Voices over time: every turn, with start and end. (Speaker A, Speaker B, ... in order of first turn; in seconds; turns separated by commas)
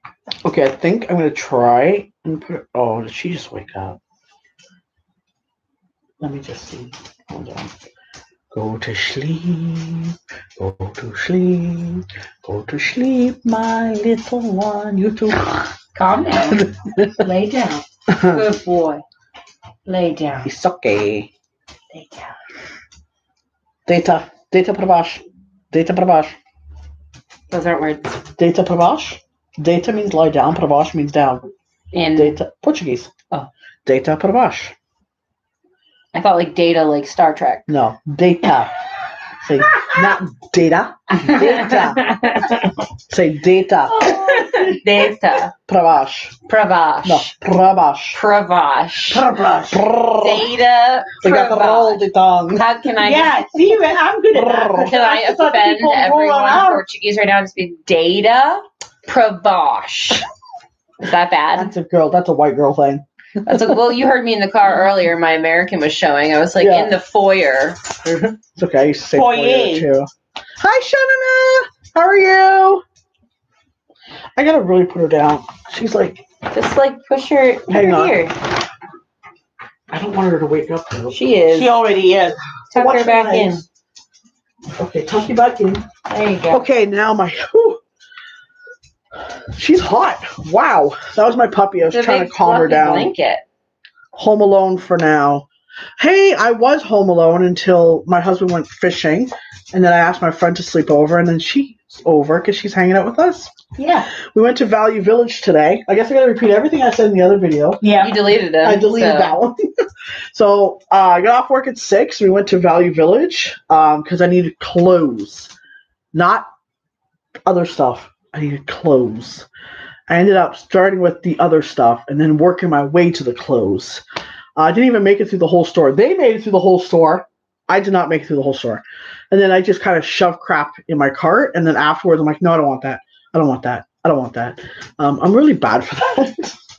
Speaker A: 0.4-4.0, Speaker A: 6.2-7.7, Speaker A: 8.5-15.6, Speaker B: 15.9-16.7, Speaker A: 16.5-17.2, Speaker B: 17.2-17.5, Speaker C: 17.2-17.8, Speaker A: 18.1-18.4, Speaker B: 18.2-19.0, Speaker B: 19.9-20.5, Speaker A: 20.4-21.3, Speaker B: 21.9-22.3, Speaker A: 23.9-26.4, Speaker B: 27.5-28.2, Speaker A: 28.4-31.5, Speaker B: 31.9-32.4, Speaker A: 32.1-33.1, Speaker A: 33.9-34.7, Speaker B: 36.1-37.7, Speaker A: 37.7-38.7, Speaker A: 39.4-42.1, Speaker B: 41.1-42.6, Speaker A: 43.1-44.9, Speaker B: 43.9-45.5, Speaker A: 45.7-46.4, Speaker B: 46.5-47.3, Speaker A: 47.0-48.2, Speaker B: 48.1-49.2, Speaker C: 49.1-49.9, Speaker A: 49.7-50.5, Speaker B: 50.2-53.3, Speaker A: 51.2-52.6, Speaker C: 53.0-56.8, Speaker A: 54.3-54.9, Speaker B: 54.8-60.2, Speaker B: 61.0-61.7, Speaker A: 61.5-63.8, Speaker B: 63.4-67.8, Speaker A: 66.6-66.9, Speaker A: 68.0-70.1, Speaker C: 69.1-69.9, Speaker A: 70.6-72.8, Speaker A: 74.4-76.2, Speaker B: 76.5-78.4, Speaker A: 77.7-78.2, Speaker A: 79.9-81.2, Speaker B: 81.1-81.8, Speaker C: 81.5-82.4, Speaker B: 82.7-83.6, Speaker A: 82.7-83.6, Speaker A: 84.8-85.8, Speaker B: 86.1-86.7, Speaker A: 86.5-87.8, Speaker A: 89.5-93.1, Speaker B: 91.9-93.4, Speaker A: 94.2-95.5, Speaker A: 96.0-103.5, Speaker C: 103.8-104.1, Speaker A: 104.3-107.8, Speaker C: 107.8-108.2, Speaker B: 108.0-109.4, Speaker A: 108.6-109.6, Speaker A: 110.3-115.5, Speaker A: 116.1-116.5, Speaker A: 117.5-119.5, Speaker A: 120.1-124.0, Speaker A: 124.6-136.6